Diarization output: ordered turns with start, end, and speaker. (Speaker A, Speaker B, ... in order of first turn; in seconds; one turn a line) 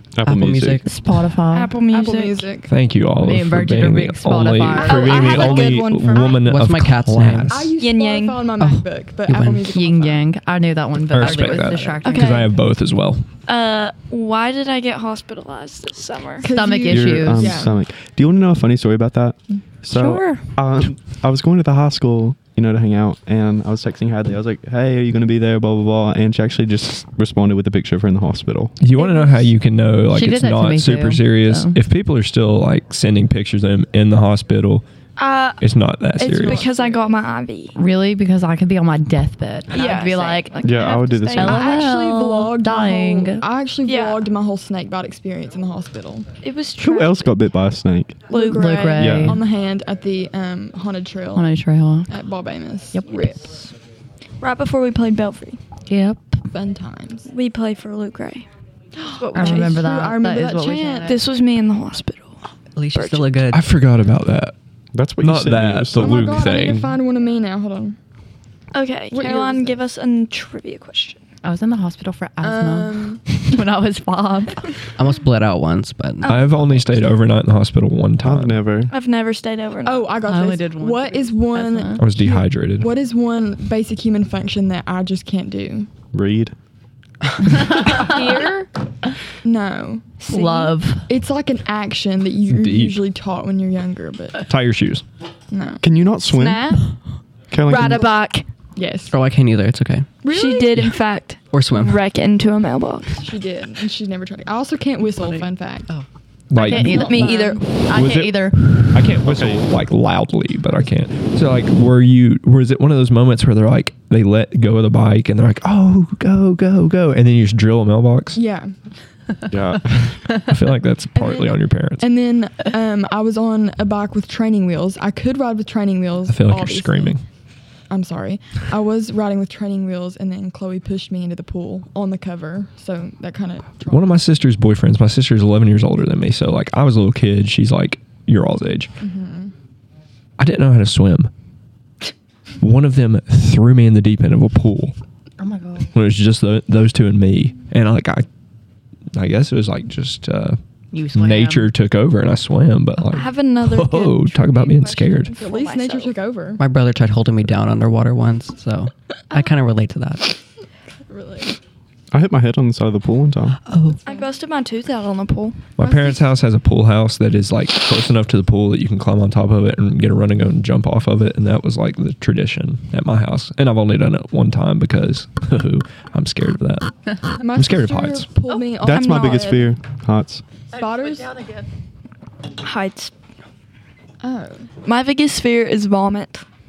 Speaker A: 0.1-0.8
Speaker B: 0.2-0.9
Speaker C: 0.8-1.7
Speaker D: 1.5-2.5
Speaker E: 1.9-2.7
Speaker F: 2.7-7.7
Speaker C: 3.2-5.2
Speaker D: 4.8-6.4
Speaker E: 4.8-5.8
Speaker B: 6.4-7.6
Speaker E: 7.5-10.3
Speaker D: 7.8-8.4
Speaker B: 8.6-9.7
Speaker C: 9.7-12.5
Speaker F: 11.1-13.3
Speaker B: 11.2-12.0
Speaker D: 12.0-12.5
Speaker D: 13.5-16.5
Speaker E: 16.4-17.8
Speaker C: 16.4-17.6
Speaker A: 16.9-28.8
Speaker C: 19.9-20.5
Speaker F: 28.8-34.8
Speaker D: 29.0-29.5
Speaker C: 30.1-31.8
Speaker D: 35.2-35.6
Speaker F: 35.6-36.6
Speaker D: 36.1-37.8
Speaker E: 36.4-37.1
Speaker C: 37.7-40.5
Speaker D: 39.7-41.6
Speaker A: 40.6-41.8
Speaker C: 41.3-43.5
Speaker E: 41.4-46.3
Speaker D: 43.9-44.2
Speaker D: 46.4-47.4
Speaker A: 46.8-48.2
Speaker E: 48.3-51.5
Speaker D: 48.3-48.8
Speaker C: 48.4-49.4
Speaker A: 49.0-49.4
Speaker C: 51.3-52.1
Speaker E: 52.1-53.5
Speaker C: 52.9-53.3
Speaker D: 53.1-53.7
Speaker D: 54.4-55.6
Speaker C: 55.9-56.4
Speaker E: 56.5-57.3
Speaker D: 57.3-58.5
Speaker E: 59.0-61.1
Speaker D: 59.1-59.9
Speaker C: 59.3-61.2
Speaker D: 61.0-62.4
Speaker B: 62.8-63.7
Speaker D: 62.9-63.4
Speaker F: 63.5-64.5
Speaker A: 64.9-66.5
Speaker F: 65.2-67.0
Speaker E: 65.9-68.0
Speaker D: 68.7-71.2
Speaker E: 69.1-69.8
Speaker C: 71.4-74.7
Speaker E: 72.4-73.2
Speaker B: 75.0-76.8
Speaker D: 76.2-76.5
Speaker F: 76.2-78.6
Speaker A: 78.2-78.9
Speaker D: 78.9-80.1
Speaker E: 79.8-85.9
Speaker C: 80.2-82.0
Speaker F: 82.0-82.9
Speaker A: 86.1-86.5
Speaker D: 87.8-88.7
Speaker E: 89.4-90.1
Speaker D: 90.2-90.7
Speaker C: 90.2-91.1
Speaker E: 91.1-94.5
Speaker F: 92.5-93.0
Speaker F: 94.4-95.0
Speaker E: 95.5-95.8
Speaker A: 95.8-96.8
Speaker D: 96.3-97.0
Speaker A: 97.5-98.1
Speaker D: 97.7-98.5
Speaker E: 98.7-99.2
Speaker B: 99.1-100.1
Speaker E: 100.2-100.8
Speaker D: 100.3-103.3
Speaker B: 101.5-102.0
Speaker E: 103.2-105.9
Speaker B: 105.2-106.0
Speaker F: 106.5-107.2
Speaker C: 106.5-109.1
Speaker E: 106.6-107.8
Speaker D: 106.7-107.6
Speaker F: 107.9-118.4
Speaker A: 109.2-109.6
Speaker E: 118.3-118.7
Speaker A: 119.5-120.2
Speaker F: 120.4-122.1
Speaker E: 121.1-127.2
Speaker F: 126.3-127.2
Speaker E: 127.9-134.1
Speaker F: 133.8-138.9
Speaker E: 139.0-139.5
Speaker F: 140.4-141.3
Speaker F: 142.6-144.9
Speaker C: 145.4-145.9
Speaker F: 145.9-148.3
Speaker F: 149.1-150.6
Speaker C: 150.9-151.7
Speaker F: 151.1-155.3
Speaker D: 153.1-156.1
Speaker E: 155.3-156.6
Speaker B: 156.6-160.3
Speaker E: 161.1-161.5
Speaker A: 162.1-163.6
Speaker B: 163.7-164.0
Speaker D: 164.0-165.9
Speaker E: 164.1-164.3
Speaker F: 165.8-178.3
Speaker E: 165.9-166.1
Speaker E: 177.4-179.6
Speaker A: 178.8-180.4
Speaker D: 178.8-179.7
Speaker E: 180.7-181.4
Speaker D: 182.6-183.1
Speaker E: 184.2-184.7
Speaker D: 184.8-186.4